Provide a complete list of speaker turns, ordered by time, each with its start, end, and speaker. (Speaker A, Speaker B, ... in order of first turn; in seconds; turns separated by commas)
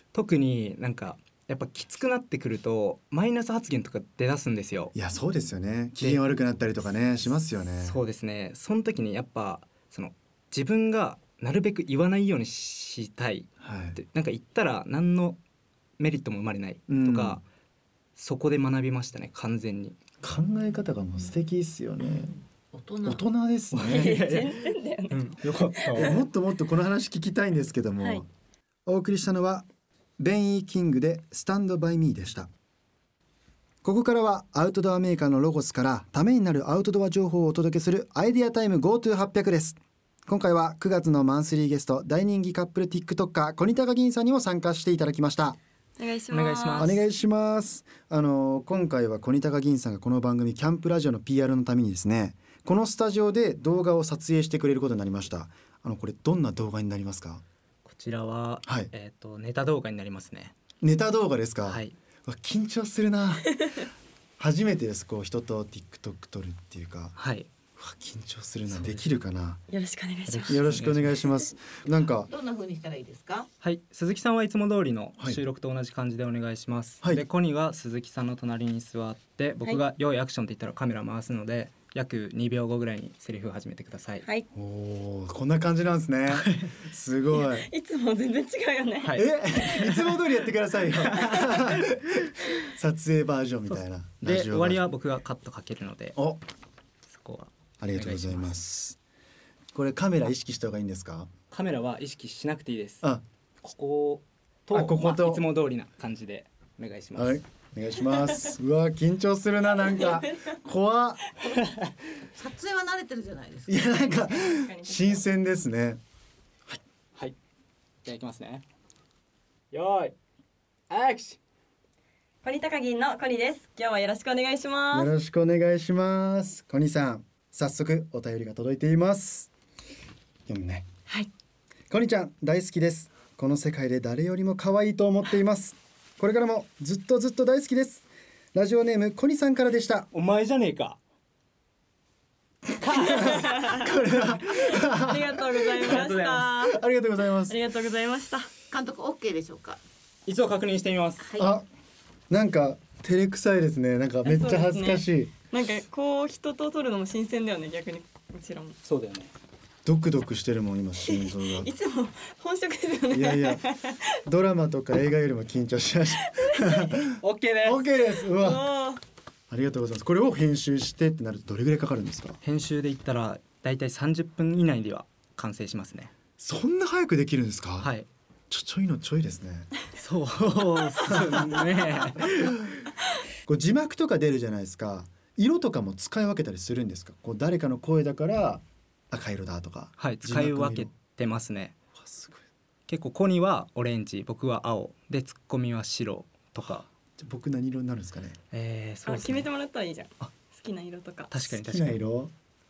Speaker A: 0.1-4.9, Speaker B: 4.9-8.0, Speaker A: 7.8-15.4, Speaker B: 13.6-14.0, Speaker A: 16.0-17.4, Speaker B: 16.9-17.4, Speaker A: 18.2-20.0, Speaker B: 20.2-22.4, Speaker C: 22.7-23.2, Speaker B: 23.1-24.2, Speaker A: 23.7-26.2, Speaker D: 23.9-26.2, Speaker B: 26.0-28.3, Speaker B: 28.9-29.7, Speaker B: 30.2-32.5, Speaker B: 33.8-45.6, Speaker D: 46.0-46.9, Speaker A: 46.3-47.0, Speaker B: 46.8-57.4, Speaker A: 57.9-60.5, Speaker B: 60.8-63.6, Speaker A: 61.7-62.0, Speaker B: 64.4-67.2, Speaker A: 67.2-67.5, Speaker B: 67.8-69.6, Speaker A: 68.7-69.1, Speaker D: 69.7-70.7, Speaker B: 70.3-72.3, Speaker A: 70.5-71.2, Speaker C: 72.2-73.5, Speaker A: 73.6-84.3, Speaker B: 84.5-87.7, Speaker A: 86.3-86.7, Speaker D: 87.3-90.0, Speaker A: 89.0-90.0, Speaker B: 89.2-94.8, Speaker A: 94.2-96.2, Speaker B: 96.2-96.4, Speaker A: 97.1-98.5, Speaker B: 97.8-99.0, Speaker B: 99.7-101.3, Speaker A: 101.5-103.0, Speaker A: 103.6-107.4, Speaker B: 104.7-105.4, Speaker B: 107.2-111.2, Speaker D: 110.0-110.4, Speaker C: 112.3-113.8, Speaker B: 113.7-116.0, Speaker D: 114.1-115.2, Speaker A: 118.0-118.7, Speaker A: 119.7-120.2, Speaker A: 120.9-121.4, Speaker D: 122.4-125.1, Speaker B: 124.9-129.5, Speaker B: 130.5-130.9, Speaker B: 131.9-140.1, Speaker A: 140.1-141.0, Speaker B: 143.0-146.1, Speaker A: 143.1-143.4, Speaker D: 143.1-143.8, Speaker D: 144.5-146.8, Speaker A: 145.8-146.5, Speaker B: 146.6-147.6, Speaker D: 147.5-148.5, Speaker C: 148.7-149.8, Speaker A: 150.3-151.3, Speaker C: 151.2-151.5, Speaker B: 151.4-151.7, Speaker B: 152.3-155.3, Speaker D: 154.2-158.8, Speaker A: 158.8-159.3, Speaker B: 159.8-161.7, Speaker D: 161.1-164.0, Speaker B: 163.1-163.6, Speaker B: 164.2-168.7, Speaker D: 166.4-166.9, Speaker A: 167.2-167.8, Speaker D: 168.3-169.0, Speaker B: 169.5-172.4, Speaker A: 172.4-176.1, Speaker B: 176.4-177.9, Speaker A: 177.8-178.1, Speaker B: 178.5-179.7, Speaker A: 180.0-182.7, Speaker B: 181.1-181.6, Speaker B: 183.5-190.9, Speaker A: 190.0-191.8, Speaker B: 191.9-192.4, Speaker A: 192.9-196.8, Speaker B: 197.2-198.4, Speaker A: 198.5-199.5, Speaker D: 199.1-201.3, Speaker A: 201.3-202.0, Speaker B: 201.4-202.3